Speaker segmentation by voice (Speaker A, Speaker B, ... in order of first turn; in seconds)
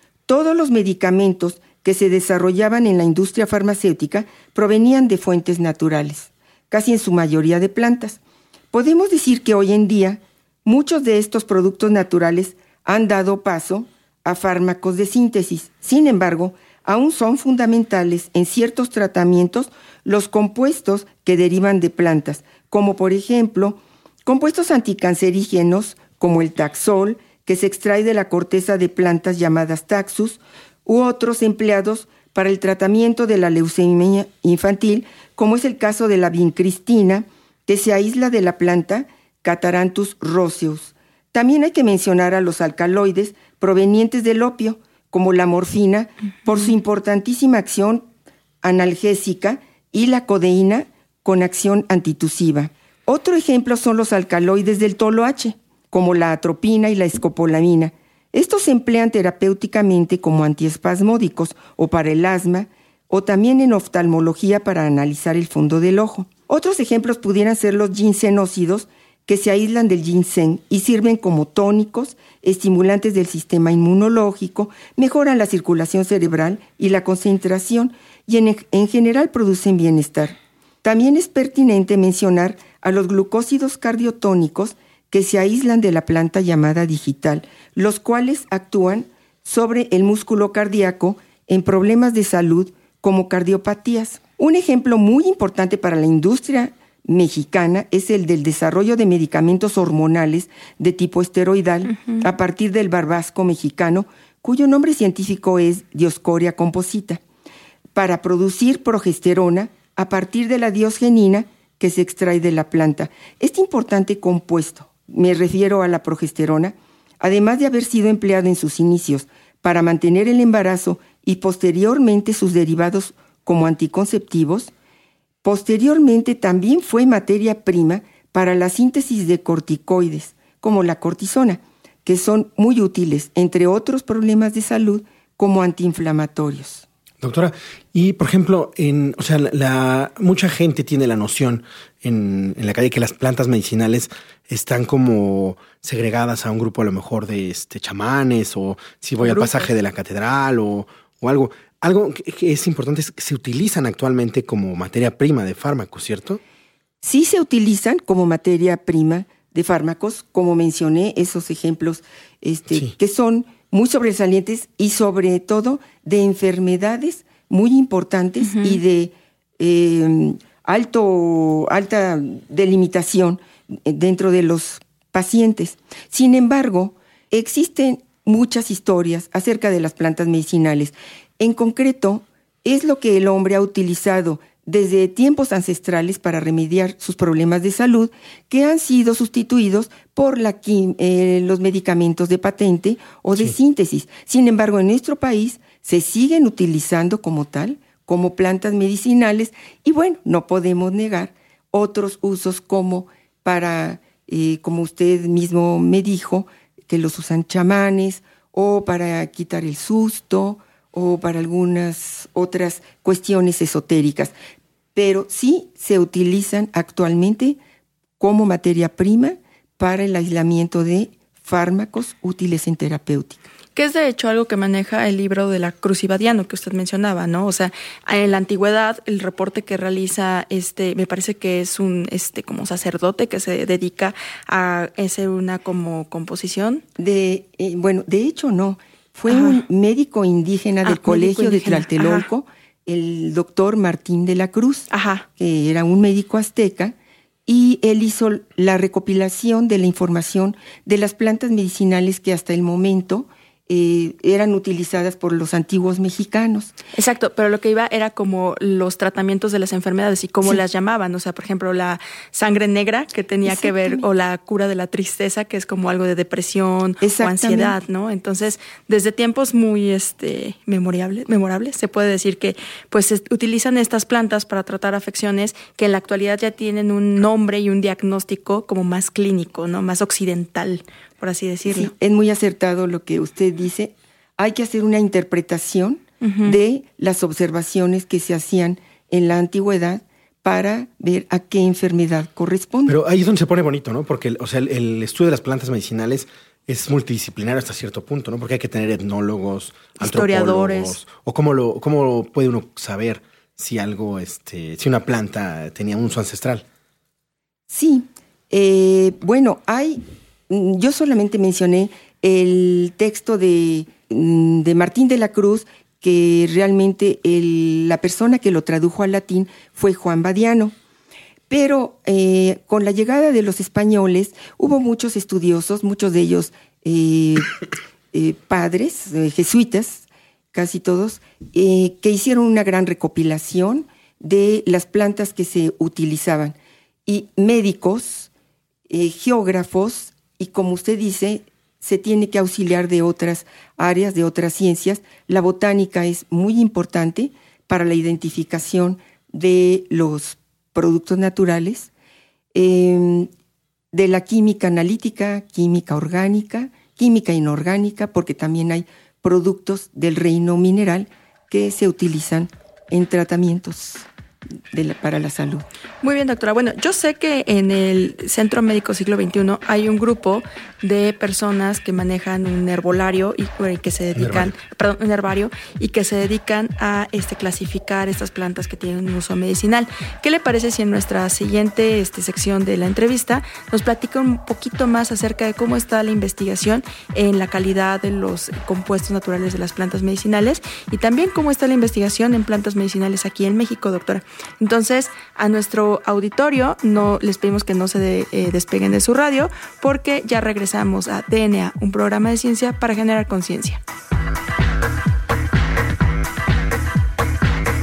Speaker A: 0.3-8.2, 8.7-48.1, 48.6-107.2, 108.0-124.7, 125.4-136.9, 157.0-214.3, 214.9-217.6, 218.2-223.5, 237.0-246.9, 247.5-256.7, 263.4-264.1, 267.0-267.7, 281.6-292.9, 307.7-320.7, 321.5-327.5, 328.1-338.3, 338.9-351.9, 352.6-353.3, 353.9-364.1, 364.7-365.6
Speaker B: 101.9-102.2, 149.2-149.6, 168.4-168.8, 223.8-236.8, 239.3-239.6, 240.9-242.3, 244.9-245.3, 257.0-281.9, 286.2-286.6, 300.0-301.0, 366.0-403.8
Speaker C: 137.2-156.4, 292.9-306.6, 374.1-374.6